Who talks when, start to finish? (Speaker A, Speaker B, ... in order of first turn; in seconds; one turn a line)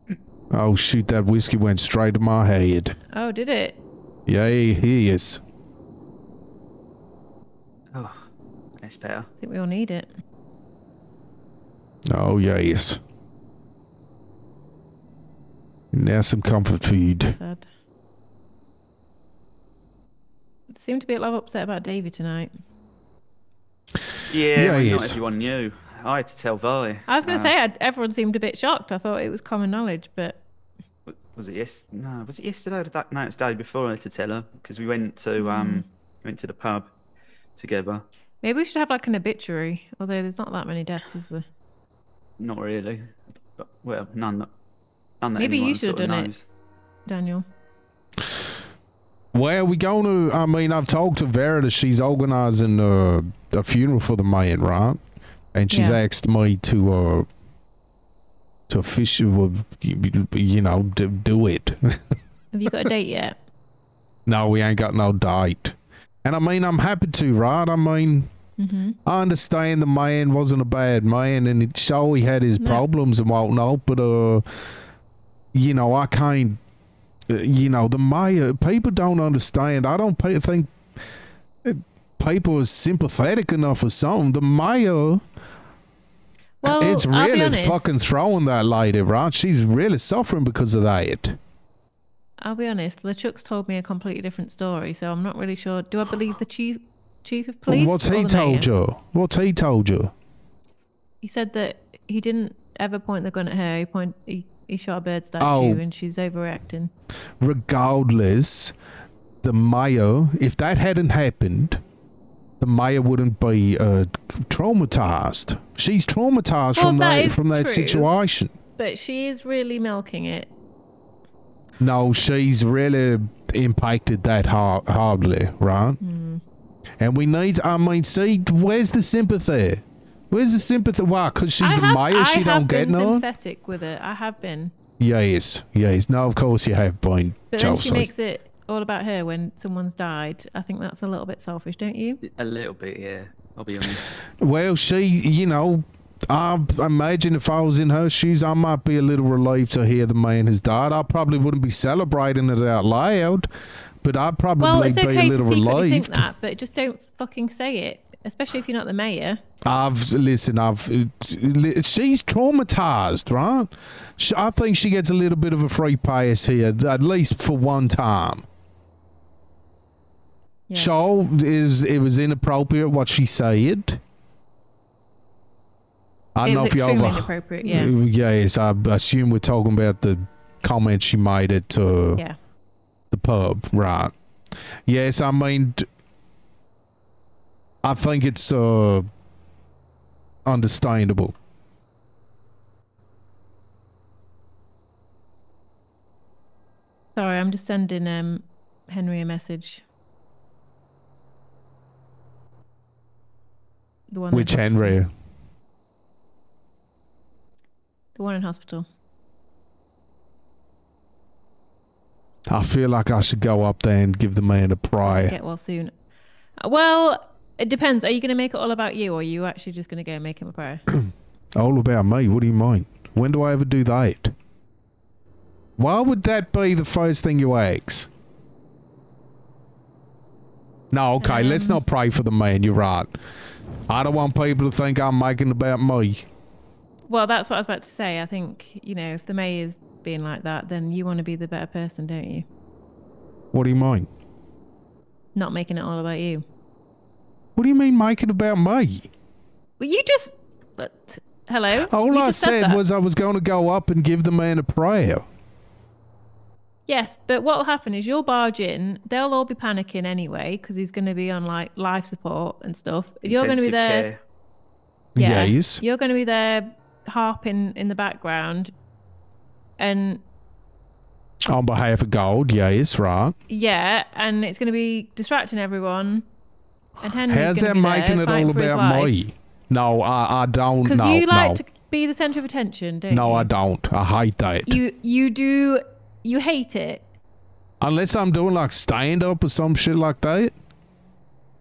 Speaker A: 0.5-3.0
Speaker B: 3.1-3.8
Speaker A: 4.3-5.4
Speaker C: 8.8-9.3
Speaker B: 9.4-10.1
Speaker A: 12.1-13.0
Speaker A: 15.9-17.4
Speaker B: 17.2-17.7
Speaker B: 20.7-22.5
Speaker C: 24.3-27.5
Speaker A: 24.5-25.2
Speaker B: 27.1-30.4
Speaker C: 31.1-36.9
Speaker B: 35.4-35.8
Speaker C: 37.6-38.0
Speaker B: 38.4-41.5
Speaker C: 42.4-44.5
Speaker C: 45.2-46.5
Speaker B: 45.4-46.3
Speaker B: 47.1-47.5
Speaker A: 49.3-55.0
Speaker A: 55.5-57.3
Speaker B: 55.7-56.0
Speaker A: 58.7-62.0
Speaker B: 62.5-63.4
Speaker A: 64.3-68.3
Speaker B: 68.6-69.0
Speaker A: 69.1-74.4
Speaker B: 72.6-72.8
Speaker A: 75.5-76.6
Speaker A: 77.3-80.7
Speaker A: 81.6-85.2
Speaker B: 86.6-88.0
Speaker A: 86.7-91.4
Speaker B: 92.4-98.7
Speaker A: 97.7-100.1
Speaker B: 101.2-106.9
Speaker A: 105.4-105.8
Speaker A: 107.4-108.8
Speaker A: 109.4-111.8
Speaker A: 112.6-118.5
Speaker B: 116.8-118.1
Speaker B: 118.8-120.5
Speaker A: 121.8-126.0
Speaker B: 126.0-126.4
Speaker A: 127.0-133.2
Speaker B: 131.6-134.7
Speaker A: 135.0-138.1
Speaker B: 137.5-142.2
Speaker C: 142.2-144.1
Speaker A: 144.4-153.5
Speaker A: 154.0-156.3
Speaker B: 154.6-159.4
Speaker A: 159.6-168.5
Speaker A: 170.8-174.0
Speaker A: 176.3-182.2
Speaker B: 176.4-177.9
Speaker A: 183.1-184.1
Speaker A: 184.9-185.9
Speaker A: 187.8-189.1
Speaker A: 190.5-191.3
Speaker B: 197.2-199.8
Speaker B: 204.1-205.0
Speaker A: 204.3-205.1
Speaker B: 208.2-208.8
Speaker A: 212.5-215.3
Speaker B: 215.0-215.9
Speaker B: 216.6-220.8
Speaker A: 221.6-224.3
Speaker A: 225.8-228.1
Speaker A: 230.9-233.1
Speaker B: 231.2-231.8
Speaker A: 233.9-236.3
Speaker B: 237.1-242.5
Speaker A: 243.5-244.1
Speaker B: 245.3-246.4
Speaker A: 247.6-249.1
Speaker B: 249.8-252.8
Speaker A: 251.8-255.2
Speaker B: 256.9-264.1
Speaker C: 263.2-264.2
Speaker A: 265.2-265.8
Speaker B: 265.2-268.7
Speaker B: 269.8-270.2
Speaker A: 271.5-273.3
Speaker B: 273.5-276.2
Speaker B: 277.0-279.2
Speaker A: 277.3-281.6
Speaker B: 280.9-283.5
Speaker A: 283.1-284.8
Speaker B: 284.7-287.0
Speaker A: 287.8-290.5